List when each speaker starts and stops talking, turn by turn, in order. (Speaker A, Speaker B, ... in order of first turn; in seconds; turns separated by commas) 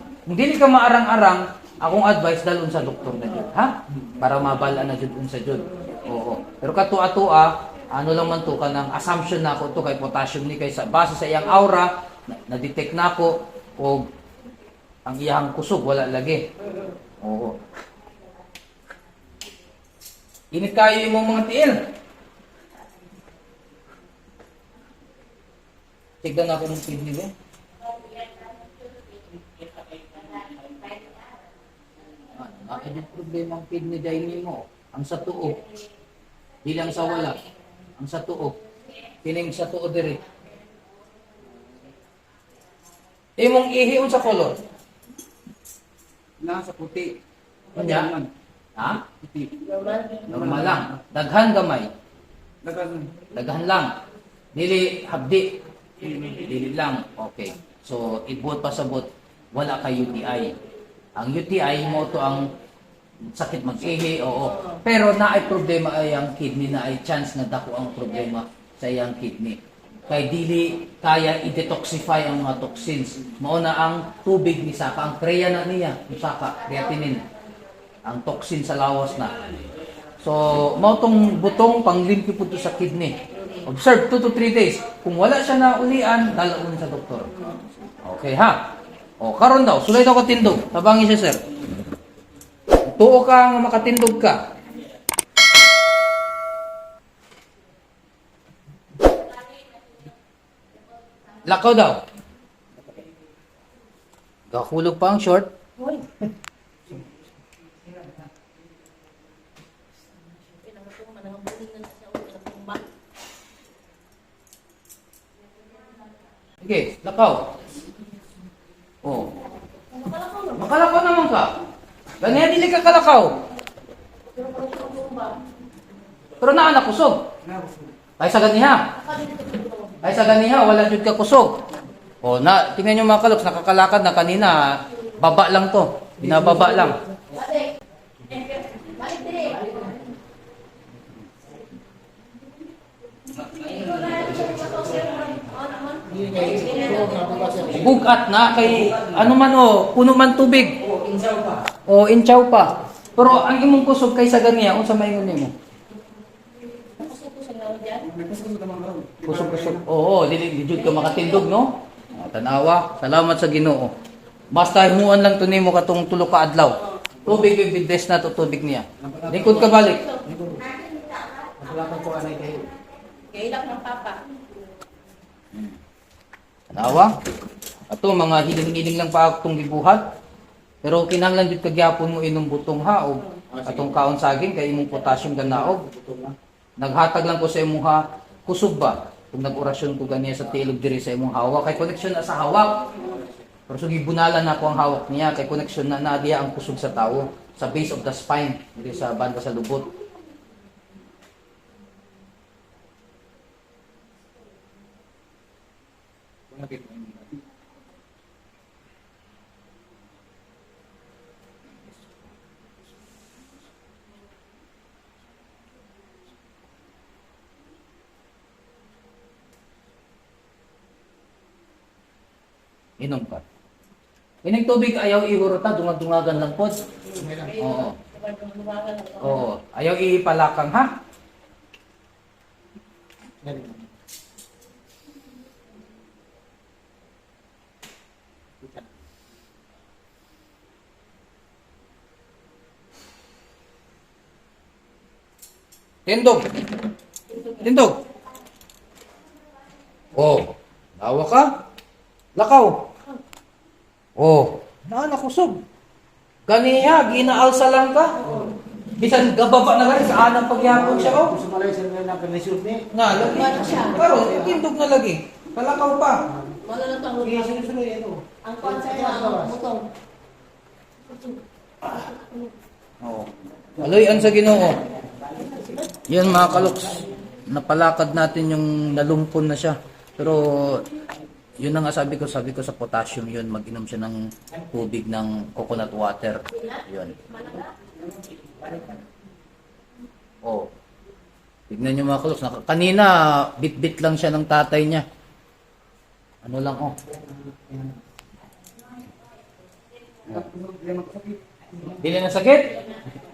Speaker A: 0.3-14.1, Speaker A: 15.1-16.5, Speaker A: 17.2-17.6, Speaker A: 20.5-21.9, Speaker A: 26.2-27.3, Speaker A: 32.3-35.7, Speaker A: 36.6-38.6, Speaker A: 39.2-40.2, Speaker A: 43.4-44.6, Speaker B: 46.4-47.2, Speaker A: 47.7-49.1, Speaker B: 48.0-48.2, Speaker B: 49.4-49.6, Speaker C: 49.6-50.2, Speaker A: 50.3-51.9, Speaker B: 52.6-53.1, Speaker A: 53.2-54.0, Speaker A: 54.5-60.6, Speaker A: 61.2-62.5, Speaker A: 63.3-77.3, Speaker A: 78.0-79.5, Speaker A: 80.2-91.4, Speaker A: 92.8-94.5, Speaker A: 101.4-102.0, Speaker A: 104.5-105.5, Speaker C: 110.5-112.9, Speaker A: 116.6-117.6, Speaker A: 119.0-119.4, Speaker C: 119.9-120.5, Speaker A: 120.5-121.6, Speaker A: 122.2-123.5, Speaker C: 124.3-125.5, Speaker A: 126.4-127.3, Speaker A: 128.2-129.0, Speaker C: 129.0-130.0, Speaker A: 130.0-131.7, Speaker A: 132.2-137.0, Speaker C: 137.3-137.7, Speaker C: 138.3-140.0, Speaker C: 143.6-147.4, Speaker B: 146.1-147.7, Speaker A: 147.7-151.1, Speaker B: 151.2-151.4, Speaker A: 151.7-155.5, Speaker C: 157.0-158.1, Speaker B: 158.1-159.7, Speaker A: 159.2-163.9, Speaker A: 164.5-170.2, Speaker B: 170.3-170.7, Speaker C: 170.9-171.3, Speaker B: 171.5-172.7, Speaker C: 173.3-174.4, Speaker A: 176.7-177.2, Speaker A: 177.9-180.1, Speaker A: 180.8-192.9, Speaker A: 193.7-199.9, Speaker B: 206.6-207.0, Speaker A: 223.0-223.4, Speaker A: 224.4-226.8, Speaker B: 227.2-227.6, Speaker A: 227.6-228.0, Speaker C: 228.1-229.2, Speaker A: 229.2-230.9, Speaker A: 246.1-246.5, Speaker A: 247.4-248.0, Speaker A: 250.2-251.5, Speaker A: 252.4-252.8, Speaker A: 254.2-255.6, Speaker A: 256.5-258.3, Speaker A: 258.9-261.4, Speaker B: 261.2-262.9, Speaker A: 262.9-266.3, Speaker C: 266.6-267.6, Speaker B: 267.2-269.6, Speaker C: 268.4-269.9, Speaker C: 272.0-272.5, Speaker A: 273.0-274.9, Speaker A: 276.1-280.9, Speaker A: 281.6-287.3, Speaker C: 287.4-287.7, Speaker A: 290.4-290.7, Speaker A: 291.7-295.1, Speaker A: 296.4-297.0, Speaker A: 300.3-300.5, Speaker B: 300.5-301.4, Speaker A: 301.8-302.8